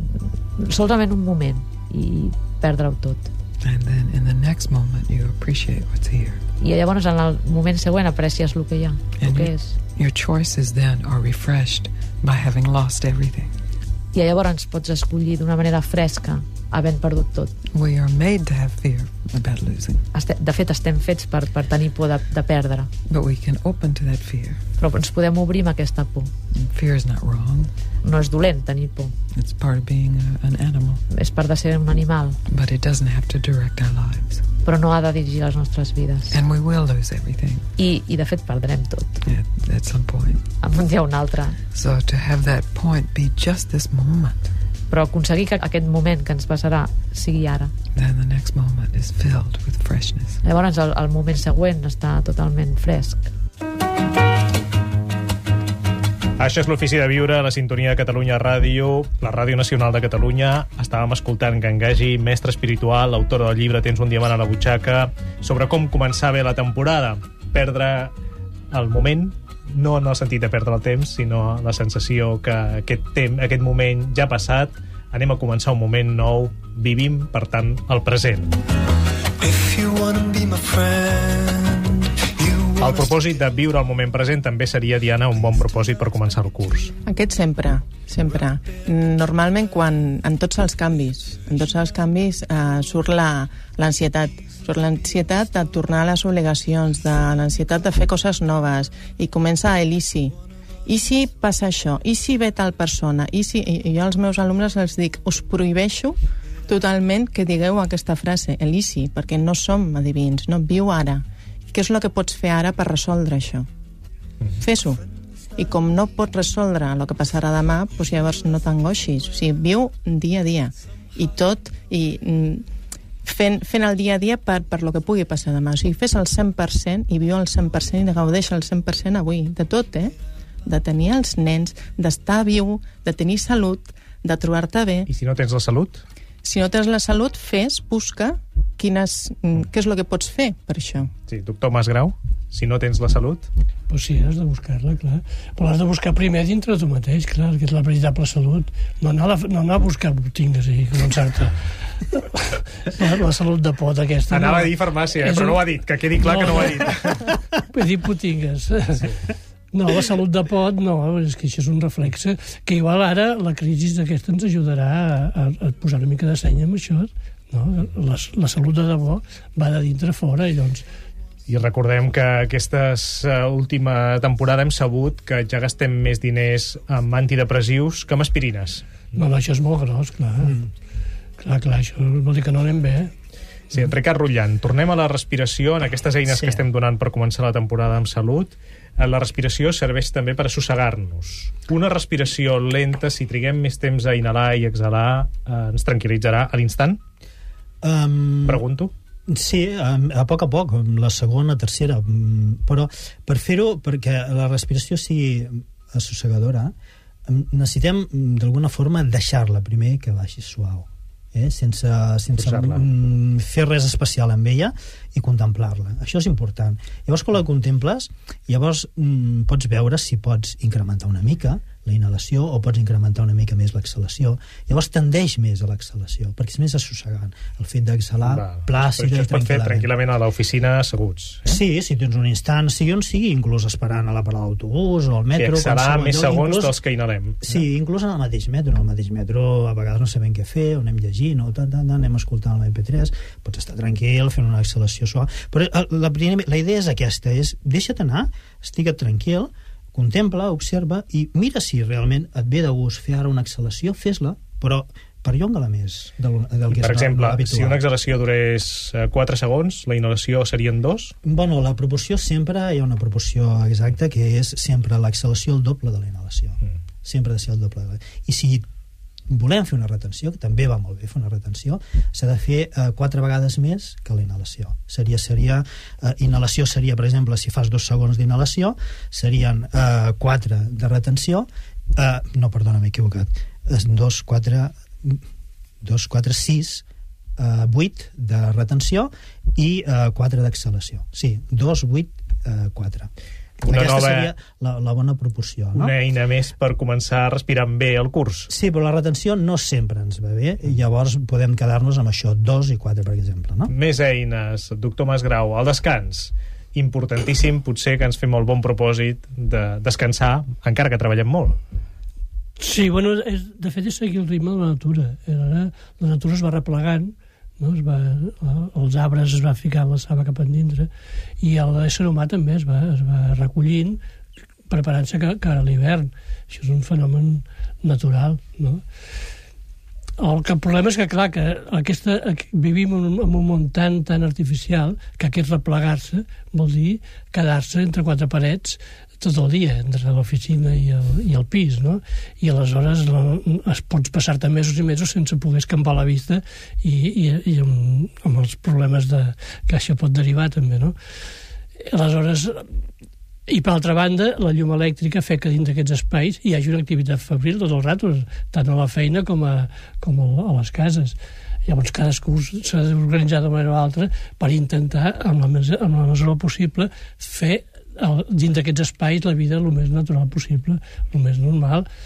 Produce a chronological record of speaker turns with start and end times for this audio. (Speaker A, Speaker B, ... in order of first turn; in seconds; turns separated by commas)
Speaker A: 0.2-3.3, Speaker B: 3.6-6.4, Speaker A: 6.6-9.8, Speaker B: 9.2-13.5, Speaker A: 14.1-17.5, Speaker B: 17.7-20.1, Speaker A: 20.1-22.9, Speaker B: 23.1-24.6, Speaker A: 24.8-26.3, Speaker B: 26.5-27.7, Speaker A: 28.0-29.1, Speaker B: 29.3-31.0, Speaker A: 31.1-32.4, Speaker B: 32.5-34.5, Speaker A: 34.6-36.4, Speaker B: 36.3-37.7, Speaker A: 37.8-39.2, Speaker B: 39.2-40.5, Speaker A: 40.6-41.6, Speaker B: 41.7-44.5, Speaker A: 44.9-47.7, Speaker B: 48.0-50.4, Speaker A: 50.4-53.3, Speaker C: 56.4-68.1, Speaker C: 68.7-78.5, Speaker D: 79.4-83.4, Speaker C: 82.8-86.9, Speaker E: 87.0-113.7, Speaker E: 114.6-115.0, Speaker E: 115.6-122.7, Speaker E: 123.2-135.1, Speaker C: 135.1-136.0, Speaker E: 136.4-141.1, Speaker C: 141.3-143.5, Speaker F: 143.9-157.0, Speaker C: 154.3-157.3, Speaker F: 157.7-159.1, Speaker F: 159.7-170.8, Speaker C: 171.5-179.0, Speaker F: 179.1-180.6, Speaker G: 180.4-180.7, Speaker F: 181.4-183.1, Speaker C: 183.7-197.0, Speaker G: 186.3-186.6, Speaker G: 197.8-198.6, Speaker C: 198.5-198.9, Speaker G: 199.3-206.7, Speaker G: 207.3-229.9, Speaker C: 212.4-212.9, Speaker C: 228.2-231.6, Speaker G: 231.4-236.8, Speaker C: 235.4-237.6, Speaker G: 237.4-257.8, Speaker C: 256.7-261.1, Speaker G: 261.2-268.6, Speaker G: 269.3-285.2, Speaker G: 285.8-286.9, Speaker G: 287.4-293.1, Speaker G: 293.6-296.0, Speaker C: 293.6-294.3, Speaker C: 295.8-298.5, Speaker G: 298.5-303.7, Speaker C: 303.7-311.6, Speaker F: 312.6-320.9, Speaker F: 321.4-324.0, Speaker F: 324.7-328.9, Speaker F: 330.2-351.0, Speaker F: 351.9-352.7, Speaker F: 353.5-371.9